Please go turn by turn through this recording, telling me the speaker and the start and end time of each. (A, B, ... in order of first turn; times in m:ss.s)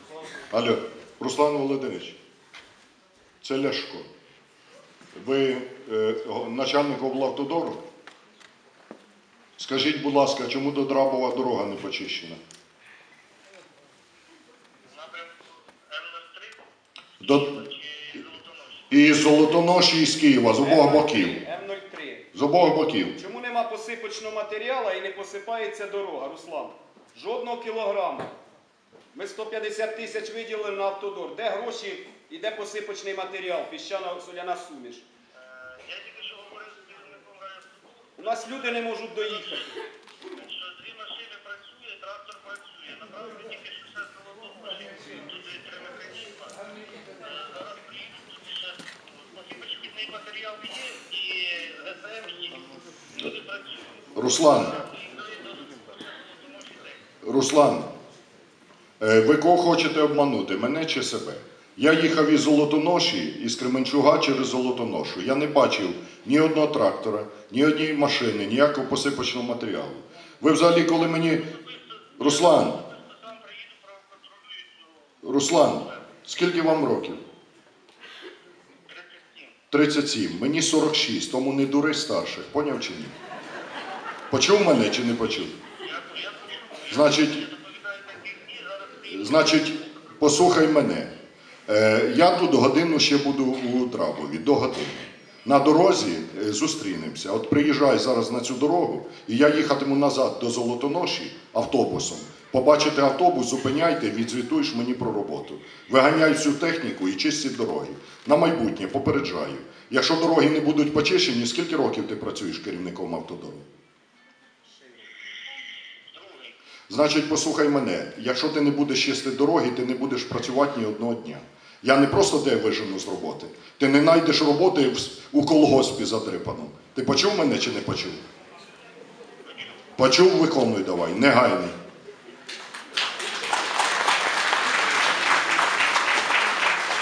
0:00.5-0:02.2 A
0:03.4-0:04.1 A
0:05.1-0:07.8 A
0:09.6-0:12.4 A
0:14.9-0:16.6 B
0:17.2-0:17.6 A
0:17.6-0:18.8 B
0:18.9-0:21.4 A
0:20.6-0:22.3 C
0:22.3-0:23.2 A
0:23.2-0:28.4 C
0:29.1-0:35.1 C
0:35.5-0:38.1 B
0:38.2-0:39.9 C
0:40.3-0:53.9 B
0:54.2-0:54.9 A
0:54.8-0:57.0 B
0:57.2-0:57.9 A
0:59.0-1:11.5 A
1:11.7-1:14.9 B
1:12.2-1:12.8 A
1:15.2-1:17.2 A
1:18.9-1:19.5 B
1:19.7-1:23.1 A
1:24.3-1:25.6 A
1:25.8-1:29.1 B
1:26.9-1:27.4 A
1:29.0-1:31.1 A
1:31.7-1:53.7 A
1:56.2-1:56.5 B
1:56.9-2:08.2 A
2:10.0-2:11.8 A